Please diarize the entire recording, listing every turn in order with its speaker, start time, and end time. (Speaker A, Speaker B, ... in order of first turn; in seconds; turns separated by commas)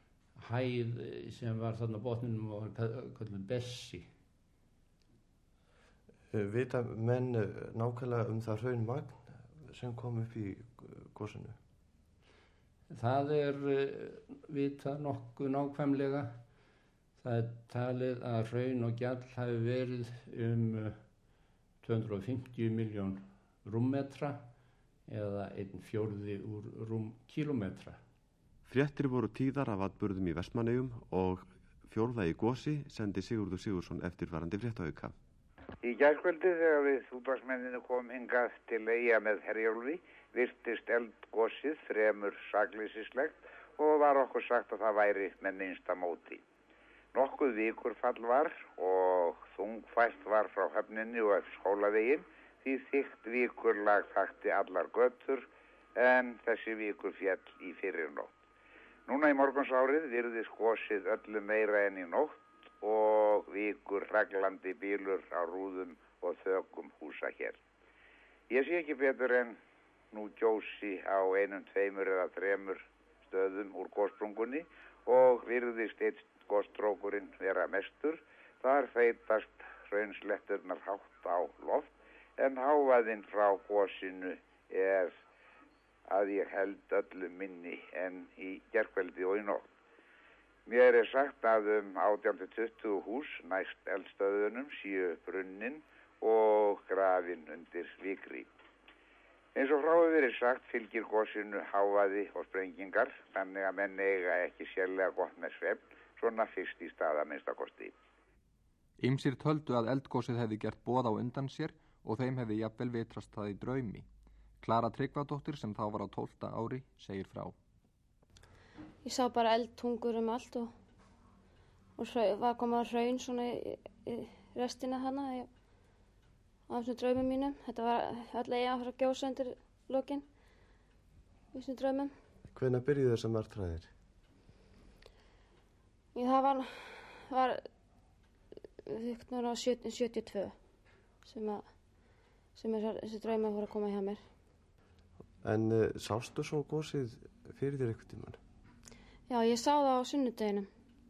Speaker A: 0.4-4.1, Speaker B: 6.3-11.6, Speaker A: 12.9-16.4, Speaker A: 17.2-21.0, Speaker A: 21.8-24.5, Speaker A: 25.1-28.0, Speaker C: 28.7-35.1, Speaker D: 35.8-46.4, Speaker D: 47.1-58.3, Speaker D: 59.1-67.6, Speaker D: 68.5-69.6, Speaker D: 70.1-85.1, Speaker D: 86.1-89.7, Speaker D: 90.7-98.5, Speaker D: 99.5-107.9, Speaker E: 109.0-114.1, Speaker E: 114.6-117.5, Speaker F: 119.0-120.7, Speaker F: 122.0-125.5, Speaker F: 126.7-130.2, Speaker F: 131.5-132.1, Speaker B: 132.5-133.9, Speaker F: 136.2-137.6, Speaker F: 138.9-140.6, Speaker F: 141.2-141.7, Speaker F: 142.6-144.2, Speaker B: 145.4-148.4, Speaker F: 149.3-150.7